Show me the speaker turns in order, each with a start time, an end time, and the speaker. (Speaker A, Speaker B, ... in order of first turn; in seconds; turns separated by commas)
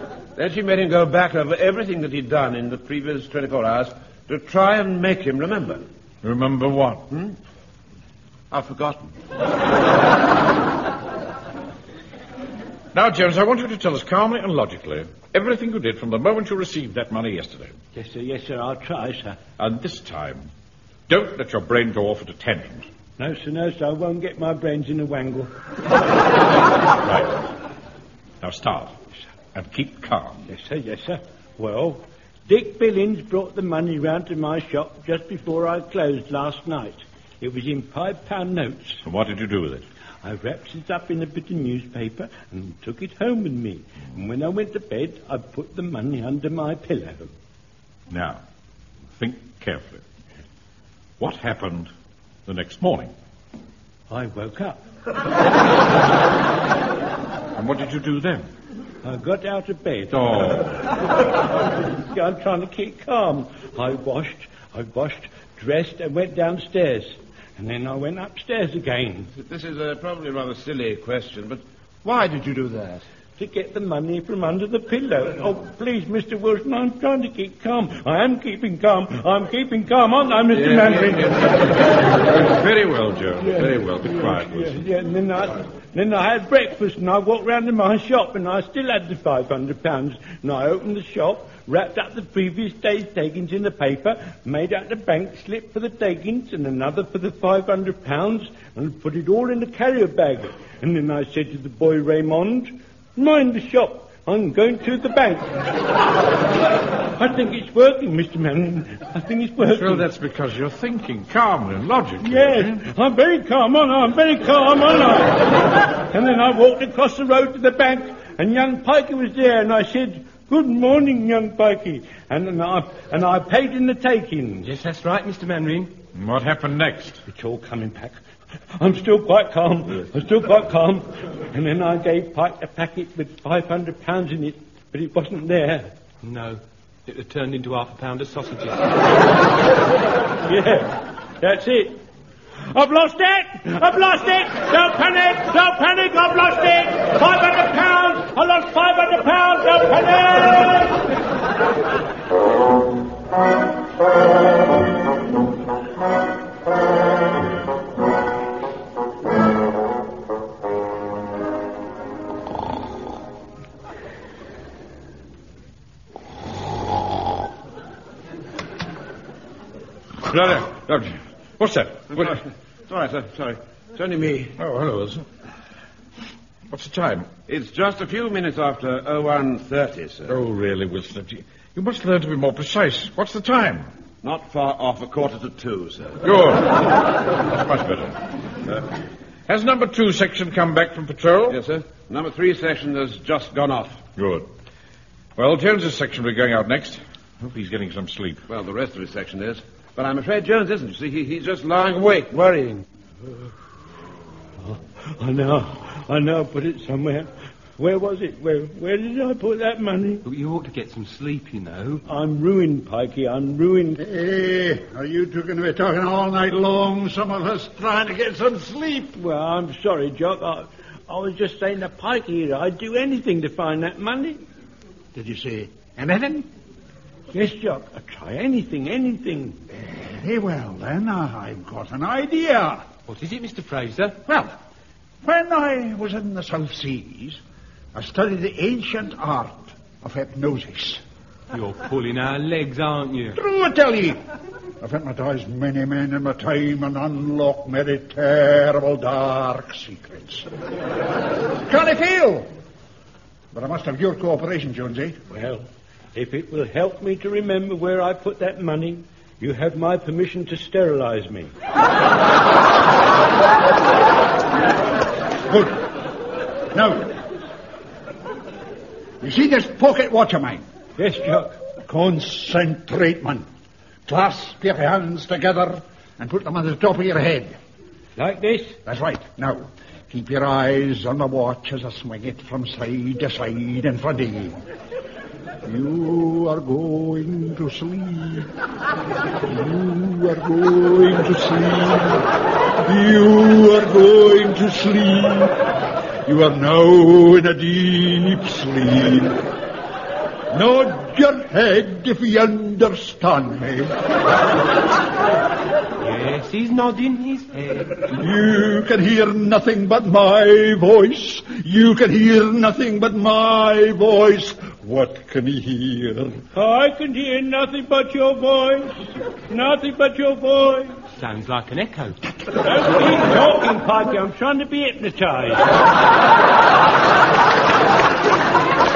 Speaker A: 0.4-5.8, Speaker B: 6.2-7.0, Speaker A: 8.5-9.1, Speaker B: 12.9-17.7, Speaker C: 17.9-19.4, Speaker B: 19.6-20.5, Speaker B: 21.1-22.9, Speaker C: 23.2-25.5, Speaker B: 27.0-27.4, Speaker B: 28.4-28.9, Speaker B: 29.5-30.4, Speaker C: 30.5-39.0, Speaker B: 39.0-39.8, Speaker C: 40.2-47.3, Speaker B: 48.1-48.4, Speaker B: 49.2-50.0, Speaker B: 51.2-51.9, Speaker B: 52.5-53.1, Speaker C: 54.1-54.8, Speaker B: 57.6-58.5, Speaker C: 59.0-60.4, Speaker B: 60.1-60.8, Speaker C: 62.1-69.3, Speaker A: 69.4-73.0, Speaker C: 73.4-81.4, Speaker B: 82.2-84.8, Speaker C: 83.4-105.6, Speaker C: 107.1-110.1, Speaker B: 109.6-112.8, Speaker C: 112.2-124.7, Speaker D: 124.6-125.9, Speaker B: 126.2-127.2, Speaker C: 127.3-128.2, Speaker C: 128.8-135.9, Speaker D: 136.2-138.9, Speaker C: 140.5-142.0, Speaker C: 142.7-151.0, Speaker B: 170.3-172.4, Speaker A: 172.1-174.6, Speaker B: 174.6-175.2, Speaker B: 176.7-177.3, Speaker A: 177.5-180.4, Speaker B: 180.3-183.9, Speaker A: 184.2-186.2, Speaker B: 186.2-186.8, Speaker B: 187.5-188.2, Speaker B: 189.5-191.6, Speaker A: 191.5-194.0, Speaker B: 194.2-194.5, Speaker B: 195.4-198.4, Speaker A: 198.5-202.8, Speaker C: 204.6-210.2, Speaker D: 210.2-212.0, Speaker C: 212.1-214.0, Speaker E: 214.0-219.1, Speaker C: 219.2-224.4, Speaker E: 225.1-226.5, Speaker C: 227.3-229.6, Speaker E: 229.9-232.8, Speaker D: 233.1-234.2, Speaker E: 234.3-234.5, Speaker E: 235.2-237.4, Speaker E: 237.9-241.0, Speaker D: 241.5-243.4, Speaker E: 243.3-244.2, Speaker E: 244.8-250.5, Speaker E: 251.7-252.5, Speaker E: 253.5-255.2, Speaker C: 255.3-261.5, Speaker E: 265.5-265.9, Speaker E: 266.7-267.2, Speaker E: 269.2-270.6, Speaker C: 271.0-271.6, Speaker E: 271.9-273.4, Speaker E: 274.1-277.6, Speaker C: 278.2-278.8, Speaker E: 278.9-284.6, Speaker E: 285.6-288.5, Speaker E: 289.4-292.3, Speaker E: 292.9-295.5, Speaker E: 296.3-299.4, Speaker E: 300.5-303.9, Speaker D: 306.0-308.1, Speaker E: 308.1-316.4, Speaker C: 316.5-320.9, Speaker D: 321.1-322.2, Speaker C: 322.6-325.7